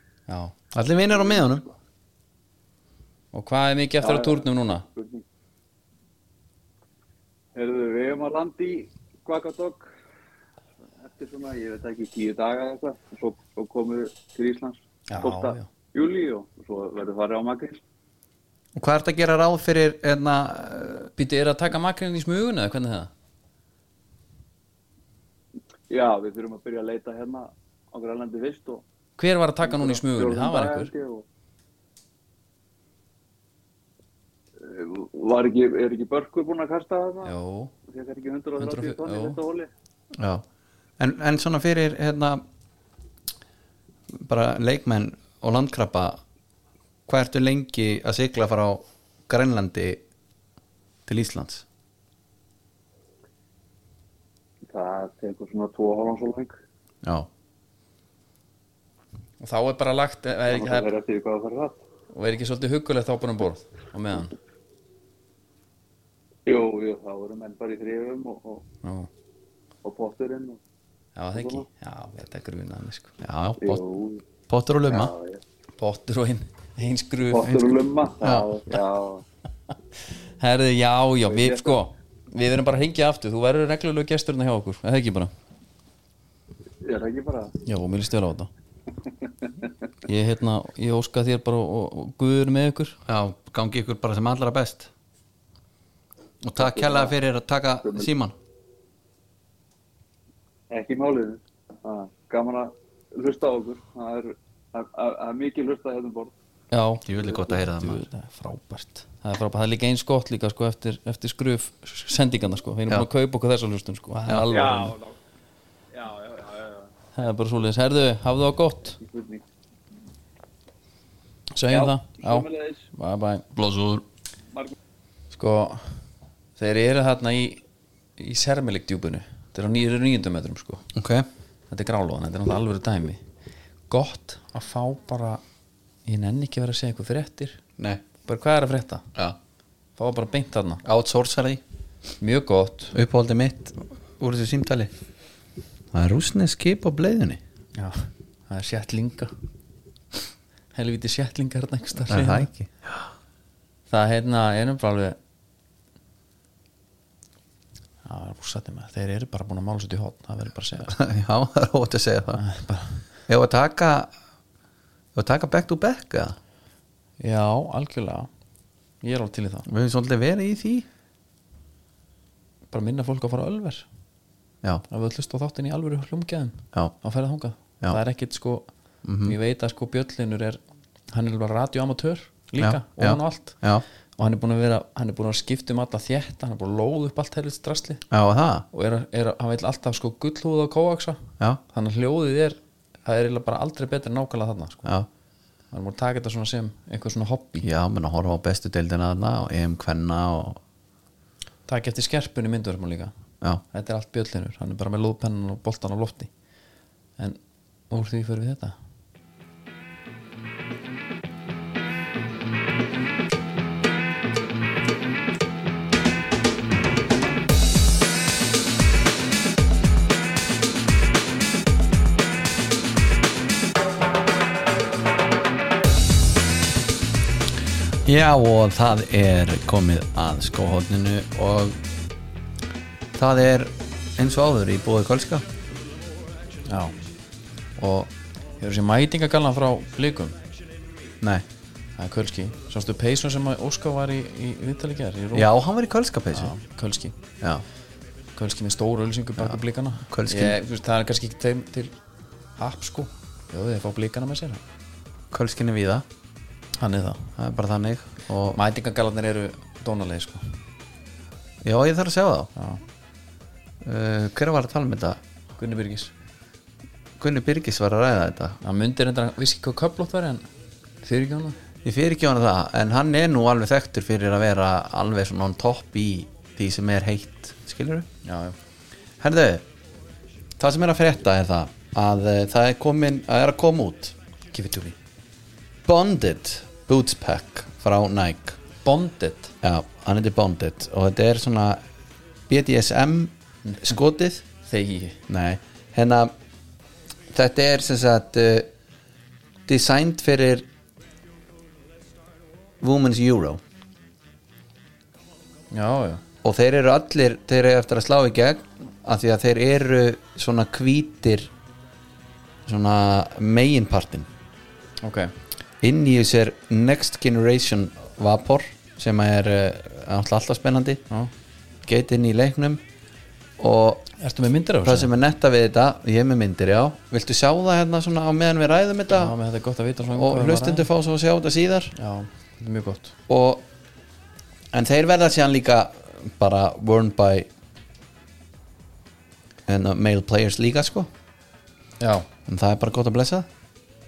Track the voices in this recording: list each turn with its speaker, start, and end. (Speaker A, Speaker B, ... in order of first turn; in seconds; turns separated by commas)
Speaker A: 0.3-0.5, Speaker B: 0.7-1.7, Speaker A: 3.3-4.9, Speaker C: 4.0-5.2, Speaker C: 7.5-9.9, Speaker C: 11.0-17.8, Speaker A: 15.1-15.7, Speaker B: 18.8-21.1, Speaker A: 21.2-23.1, Speaker C: 25.9-28.8, Speaker A: 29.2-30.9, Speaker C: 29.6-31.2, Speaker C: 34.6-39.7, Speaker A: 37.2-37.7, Speaker A: 38.6-39.4, Speaker B: 40.1-40.5, Speaker B: 41.0-42.4, Speaker B: 44.1-46.2, Speaker B: 47.1-50.0, Speaker B: 51.0-51.6, Speaker C: 54.7-56.5, Speaker B: 57.0-57.3, Speaker A: 59.4-60.9, Speaker C: 60.5-61.8, Speaker A: 62.1-64.3, Speaker C: 66.5-68.6, Speaker A: 68.8-69.1, Speaker C: 69.8-70.6, Speaker A: 71.2-73.1, Speaker C: 71.3-71.6, Speaker B: 73.2-73.8, Speaker C: 73.6-74.2, Speaker B: 74.5-75.1, Speaker C: 74.9-75.4, Speaker A: 75.8-77.6, Speaker C: 77.3-79.2, Speaker B: 78.2-78.5, Speaker A: 80.4-85.3, Speaker C: 81.3-81.8, Speaker C: 86.8-87.5, Speaker A: 87.6-88.5, Speaker C: 89.3-89.5, Speaker A: 90.0-93.0, Speaker B: 93.0-94.9, Speaker B: 96.4-98.3, Speaker C: 96.6-97.2, Speaker C: 97.8-98.1, Speaker C: 100.7-106.3, Speaker A: 106.7-115.0, Speaker B: 107.0-108.0, Speaker B: 114.3-114.5, Speaker C: 114.5-115.2, Speaker C: 115.9-116.9, Speaker A: 117.2-119.0, Speaker C: 119.0-119.4, Speaker A: 121.5-123.5, Speaker C: 121.7-122.9, Speaker B: 123.5-124.0, Speaker A: 125.3-126.0, Speaker A: 126.6-127.6, Speaker A: 128.2-130.8, Speaker B: 130.9-131.3, Speaker A: 131.7-133.2, Speaker A: 133.9-135.4, Speaker A: 136.1-137.6, Speaker B: 137.8-138.0, Speaker A: 138.3-139.0, Speaker A: 140.0-140.8, Speaker B: 140.8-141.6, Speaker A: 142.2-142.9, Speaker B: 142.9-144.9, Speaker B: 145.9-147.4, Speaker A: 147.8-149.3, Speaker A: 150.7-152.5, Speaker B: 152.1-153.1, Speaker A: 153.9-155.2, Speaker A: 158.1-160.9, Speaker B: 160.9-162.4, Speaker A: 162.4-163.0, Speaker B: 163.3-164.1, Speaker B: 165.1-166.4, Speaker A: 167.2-168.3, Speaker A: 169.0-169.7, Speaker B: 169.7-170.9, Speaker A: 172.7-173.9, Speaker A: 174.9-178.7, Speaker B: 179.0-179.4, Speaker A: 179.2-180.6, Speaker A: 181.1-183.6, Speaker B: 182.6-183.8, Speaker A: 184.2-188.0, Speaker B: 188.1-188.7, Speaker A: 188.7-194.9, Speaker A: 195.7-197.7, Speaker B: 197.6-200.6, Speaker A: 201.7-203.1, Speaker A: 203.7-206.3, Speaker A: 207.9-208.8, Speaker B: 228.1-231.8, Speaker B: 233.1-235.4, Speaker A: 236.7-236.9, Speaker B: 237.8-238.1, Speaker A: 238.6-240.4, Speaker A: 242.0-245.5, Speaker B: 245.3-246.5, Speaker A: 246.3-247.2, Speaker A: 248.4-251.9, Speaker B: 249.4-250.6, Speaker A: 252.6-254.6, Speaker B: 255.3-256.1, Speaker A: 256.8-257.3, Speaker B: 257.4-258.6, Speaker A: 258.5-260.6, Speaker B: 261.6-262.5, Speaker A: 262.6-262.8, Speaker B: 263.8-265.2, Speaker A: 265.6-266.1, Speaker B: 267.2-268.6, Speaker A: 268.6-270.4, Speaker A: 271.0-271.6, Speaker B: 271.8-278.1, Speaker A: 278.2-278.6, Speaker B: 279.2-279.6, Speaker B: 280.6-284.1, Speaker A: 284.5-284.9, Speaker B: 285.9-288.6, Speaker A: 288.8-289.5, Speaker B: 289.6-291.8, Speaker B: 292.5-294.4, Speaker A: 293.6-293.9, Speaker A: 294.6-295.2, Speaker B: 295.3-296.3, Speaker B: 297.3-298.7, Speaker B: 299.6-300.7, Speaker B: 302.8-303.6, Speaker A: 305.7-306.2, Speaker B: 306.4-311.5, Speaker B: 312.6-314.3, Speaker A: 315.0-315.3, Speaker B: 315.8-321.0, Speaker B: 321.8-322.8, Speaker B: 323.6-324.1, Speaker A: 324.2-325.1, Speaker B: 324.8-329.4, Speaker A: 329.1-330.9, Speaker B: 330.1-331.9, Speaker A: 331.9-333.1, Speaker B: 333.3-333.6, Speaker B: 334.7-337.5, Speaker B: 339.7-341.1, Speaker A: 342.0-342.3, Speaker B: 342.5-343.5